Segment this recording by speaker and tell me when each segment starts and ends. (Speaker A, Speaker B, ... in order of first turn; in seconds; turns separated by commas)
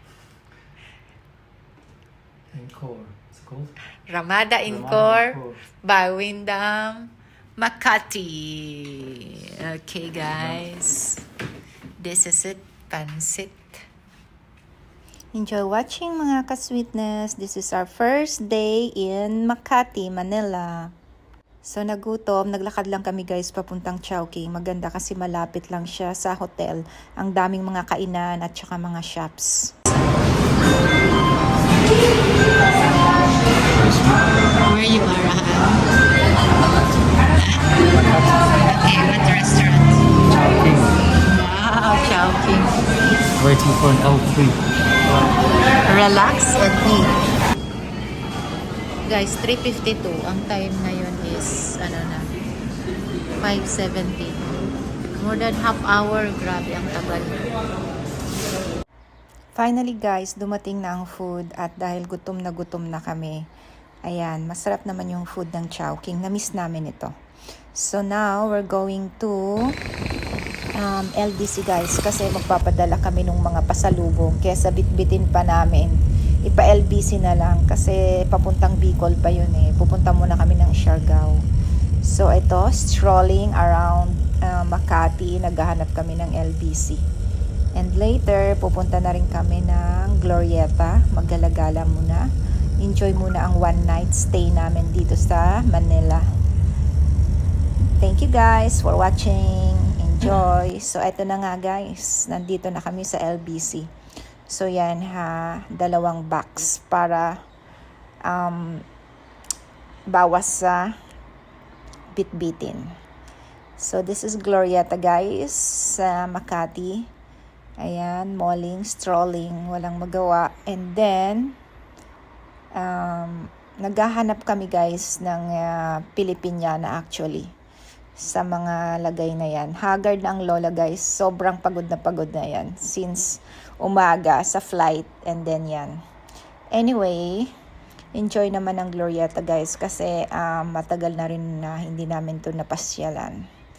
Speaker A: 2.5-3.7, Speaker B: 4.1-11.2, Speaker A: 4.6-5.6, Speaker B: 12.0-13.7, Speaker C: 15.3-20.9, Speaker C: 21.6-29.7, Speaker A: 33.8-34.2, Speaker B: 34.6-35.8, Speaker B: 38.6-40.0, Speaker A: 40.5-40.9, Speaker B: 41.1-42.8, Speaker A: 43.4-44.6, Speaker B: 45.9-47.1, Speaker B: 49.0-52.3, Speaker B: 53.4-54.5, Speaker B: 55.2-57.4, Speaker C: 59.5-63.4, Speaker C: 64.0-67.1, Speaker C: 67.7-69.8, Speaker C: 70.8-81.4, Speaker C: 82.0-87.0, Speaker C: 87.7-92.3, Speaker C: 92.8-96.2, Speaker C: 98.0-103.9, Speaker C: 104.5-107.4, Speaker C: 108.3-108.8, Speaker C: 110.1-110.9, Speaker C: 112.1-112.9, Speaker C: 113.8-117.1, Speaker C: 117.8-121.5, Speaker C: 122.8-127.5, Speaker C: 128.2-136.0, Speaker C: 136.7-137.5, Speaker C: 138.1-143.4